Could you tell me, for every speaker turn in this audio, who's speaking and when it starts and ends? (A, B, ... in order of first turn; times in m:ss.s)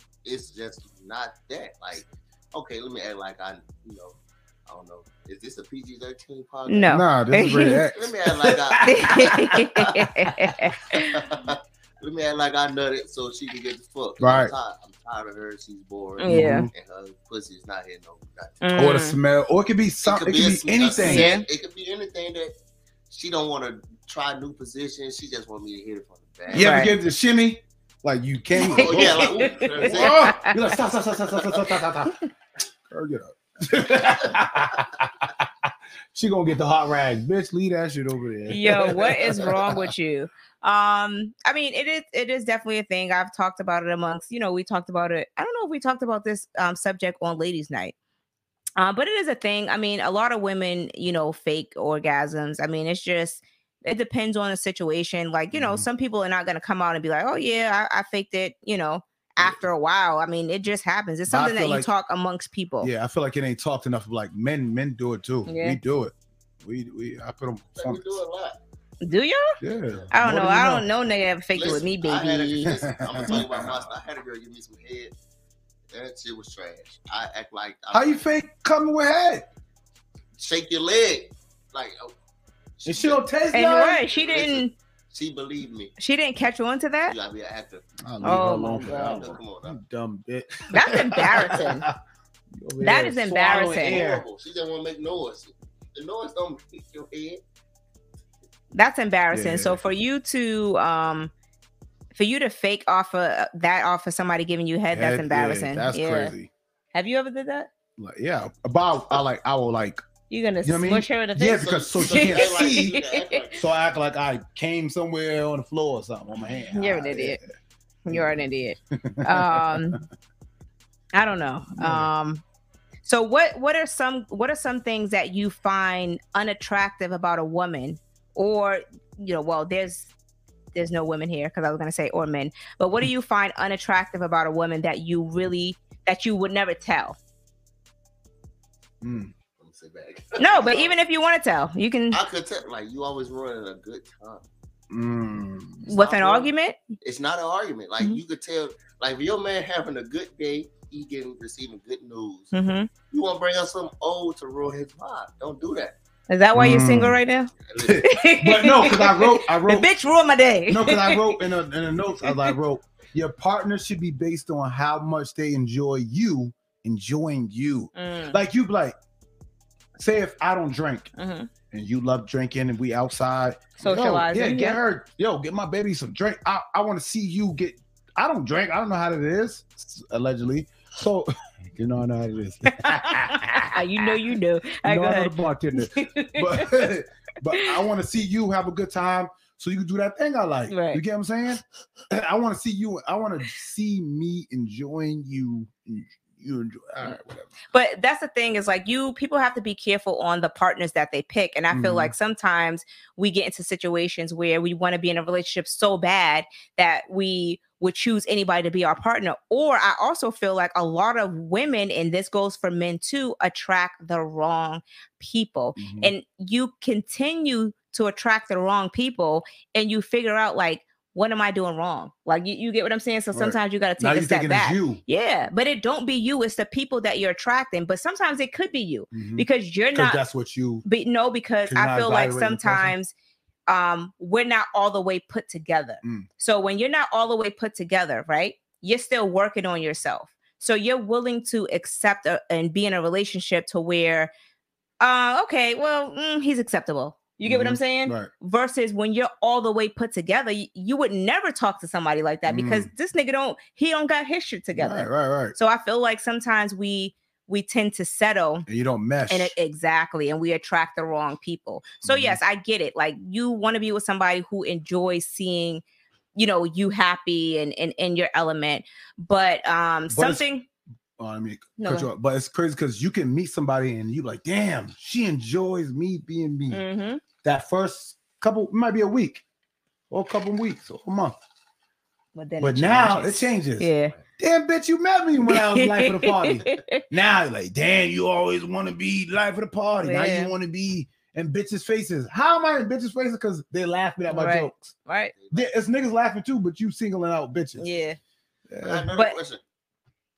0:00.2-0:07.0 A
0:06.7-0:07.8 B
0:06.9-0:10.6 C
0:07.9-0:09.4 A
0:08.8-0:11.2 B
0:10.9-0:18.6 A
0:14.2-0:14.5 C
0:16.2-0:16.7 B
0:16.2-0:16.7 C
0:18.6-0:19.2 B
0:18.8-0:21.3 C
0:20.0-0:22.5 A
0:21.0-0:21.4 B
0:23.1-0:26.8 A
0:26.5-0:32.2 C
0:26.5-0:26.9 B
0:28.6-0:30.6 B
0:28.7-0:30.5 A
0:32.9-0:39.9 C
0:38.5-0:47.9 B
0:48.8-1:02.9 B
0:55.5-0:55.8 C
0:59.4-0:59.6 C
1:01.3-1:01.9 C
1:02.8-1:08.2 C
1:05.5-1:05.8 B
1:07.8-1:08.6 A
1:09.0-1:09.6 B
1:09.6-1:10.9 C
1:10.1-1:13.4 B
1:11.6-1:15.1 A
1:12.6-1:13.9 C
1:15.9-1:18.2 A
1:17.9-1:19.4 C
1:20.4-1:22.1 A
1:22.8-1:23.2 A
1:22.8-1:24.0 C
1:23.5-1:24.7 B
1:24.1-1:25.9 A
1:26.0-1:27.1 B
1:27.1-1:27.9 A
1:28.0-1:32.0 C
1:28.2-1:29.2 B
1:28.7-1:29.8 A
1:30.7-1:31.8 B
1:32.5-1:34.2 C
1:32.8-1:34.0 B
1:33.6-1:37.4 A
1:38.7-1:41.3 B
1:39.3-1:39.8 C
1:42.1-1:46.3 B
1:44.9-1:46.5 C
1:46.9-1:47.7 B
1:48.0-1:50.0 C
1:50.3-1:53.4 B
1:50.6-1:53.0 C
1:51.5-1:53.7 A
1:53.5-1:57.4 C
1:56.7-1:57.4 B
1:58.0-2:00.0 B
1:58.9-2:00.0 C
2:01.1-2:02.4 B
2:01.8-2:02.1 C
2:03.0-2:10.1 B
2:10.7-2:17.2 B
2:19.0-2:19.3 C
2:19.6-2:20.9 A
2:20.4-2:22.2 B
2:22.1-2:24.4 A
2:24.9-2:25.9 C
2:25.8-2:26.5 A
2:25.9-2:26.8 B
2:27.0-2:32.5 A
2:32.5-2:32.9 B
2:33.1-2:35.9 A
2:36.3-2:41.4 B
2:36.5-2:37.2 C
2:37.6-2:38.0 A
2:37.8-2:39.9 C
2:40.7-2:48.9 C
2:42.2-2:42.5 B
2:47.9-2:48.4 B
2:50.0-2:51.1 C
2:51.2-2:51.5 B
2:51.7-3:04.1 C
2:53.8-2:54.8 B
3:02.7-3:06.9 B
3:04.8-3:17.5 C
3:07.5-3:07.8 B
3:10.7-3:11.0 B
3:17.7-3:50.2 B
3:21.7-3:22.1 C
3:35.8-3:36.1 C
3:43.3-3:45.0 C
3:49.1-3:50.8 C
3:50.8-3:53.1 B
3:51.7-3:52.9 C
3:53.7-4:04.3 B
4:05.0-4:18.6 B
4:07.4-4:08.3 C
4:12.5-4:12.9 C
4:14.7-4:15.5 C
4:18.6-4:19.5 C
4:19.3-4:25.8 B
4:22.0-4:22.4 C
4:26.3-4:30.6 B
4:30.1-4:30.4 C
4:31.2-4:36.8 C
4:31.8-4:32.1 B
4:36.7-4:37.2 B
4:37.4-4:39.4 C
4:40.1-4:41.4 C
4:42.3-4:44.1 B
4:42.6-4:55.0 C
4:45.4-4:47.0 B
4:50.0-4:50.5 B
4:54.3-4:55.3 B
4:55.3-4:55.7 A
4:55.5-4:57.8 C
4:57.8-4:58.2 B
4:58.7-4:59.1 C
4:58.8-4:59.6 A